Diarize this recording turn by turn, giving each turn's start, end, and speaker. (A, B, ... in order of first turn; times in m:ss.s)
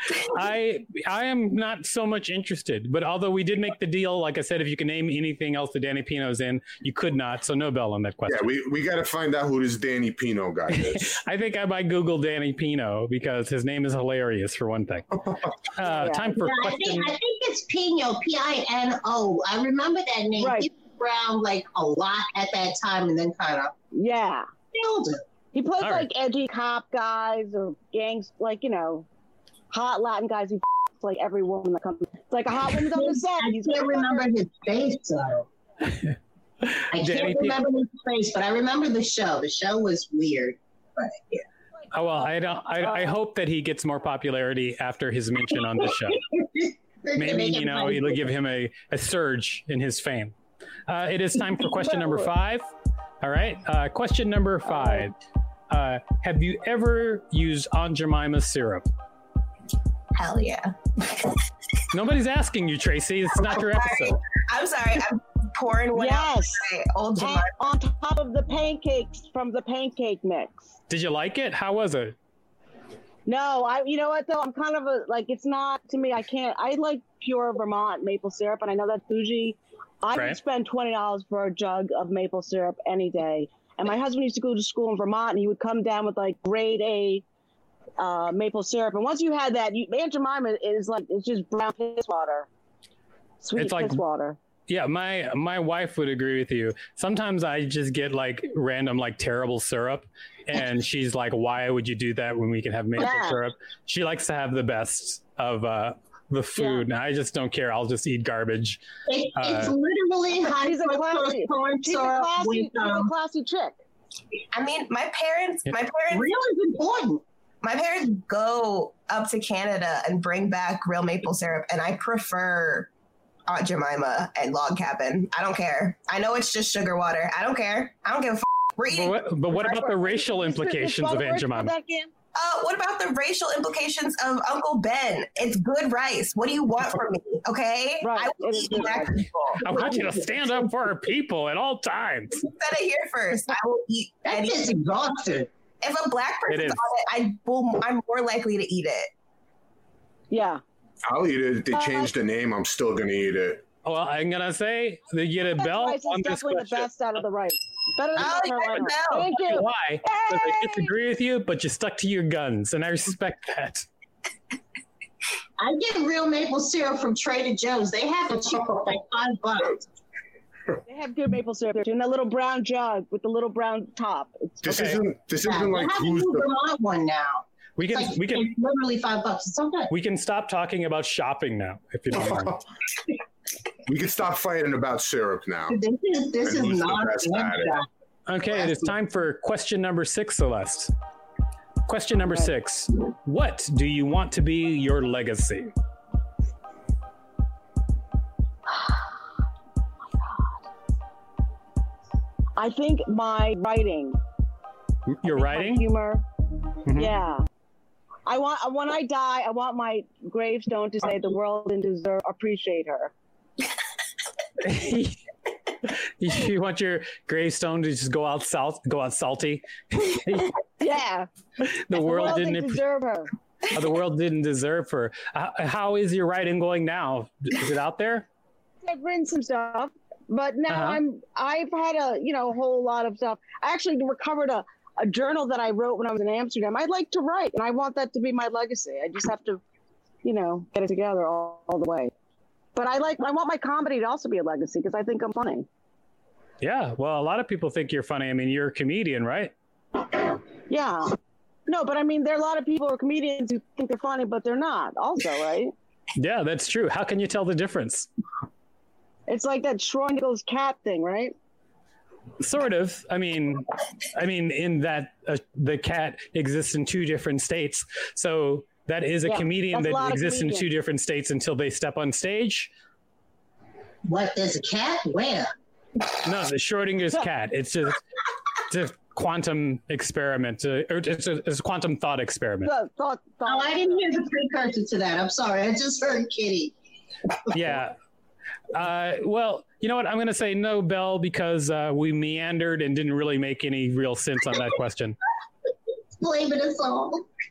0:00.1-0:08.5 A
0:08.3-0:11.2 B
0:10.7-0:17.1 A
0:15.9-0:16.3 C
0:16.4-0:23.7 D
0:20.4-0:20.7 C
0:23.9-0:24.5 C
0:24.7-0:25.2 D
0:25.5-0:29.1 C
0:25.8-0:26.1 A
0:29.7-0:34.3 C
0:32.9-0:35.5 D
0:36.7-0:37.6 A
0:36.9-0:41.4 D
0:41.9-0:46.2 A
0:45.8-0:48.3 D
0:47.2-0:50.4 A
0:50.9-0:55.1 A
0:55.7-0:58.9 A
1:00.1-1:01.1 E
1:01.9-1:04.2 A
1:03.5-1:07.5 E
1:06.0-1:06.6 C
1:07.2-1:10.7 C
1:10.9-1:12.2 A
1:13.3-1:27.2 C
1:28.0-1:32.5 C
1:33.4-1:34.4 C
1:33.6-1:34.0 A
1:34.7-1:48.8 A
1:43.0-1:43.4 C
1:46.6-1:46.8 C
1:49.1-1:53.1 D
1:49.4-1:49.8 A
1:50.5-1:53.8 C
1:54.5-1:56.3 E
1:56.1-1:57.2 D
1:57.6-2:02.9 E
2:03.5-2:09.2 E
2:08.9-2:11.7 A
2:09.5-2:12.1 C
2:12.4-2:20.6 E
2:18.0-2:19.9 C
2:19.6-2:22.4 A
2:22.4-2:24.7 E
2:24.2-2:25.5 D
2:25.8-2:29.1 E
2:26.5-2:26.8 A
2:30.3-2:30.6 C
2:31.1-2:33.6 B
2:31.7-2:32.1 C
2:33.8-2:36.9 A
2:35.5-2:40.9 C
2:38.2-2:39.5 E
2:39.4-2:43.9 A
2:45.6-2:49.9 D
2:50.9-2:54.7 C
2:54.6-2:56.5 B
2:54.7-2:55.0 A
2:55.4-2:59.9 D
2:57.8-2:58.5 A
2:59.9-3:02.6 A
3:02.1-3:02.5 B
3:03.9-3:05.8 B
3:05.7-3:07.9 D
3:06.4-3:07.8 B
3:08.3-3:10.9 A
3:08.5-3:08.9 D
3:11.9-3:15.7 A
3:22.6-3:24.2 C
3:25.1-3:25.8 A
3:25.2-3:26.2 C
3:26.9-3:27.1 A
3:27.0-3:27.4 C
3:28.3-3:33.1 C
3:34.6-3:35.2 A
3:35.8-3:40.6 A
3:40.8-3:41.3 C
3:41.6-3:42.8 A
3:41.9-3:43.3 C
3:43.7-3:48.3 A
3:48.8-3:59.6 C
3:50.7-3:51.0 A
4:00.2-4:02.1 C
4:02.8-4:05.7 C
4:06.6-4:09.5 A
4:10.7-4:11.1 C
4:11.7-4:15.7 C
4:16.2-4:18.1 A
4:19.3-4:21.3 C
4:22.4-4:32.7 A
4:29.2-4:30.7 C
4:34.1-4:35.5 D
4:36.2-4:38.0 A
4:38.7-4:42.7 A
4:42.6-4:44.1 C
4:43.5-4:46.7 D
4:47.5-4:48.0 A
4:48.7-4:55.2 A
4:56.2-4:57.3 D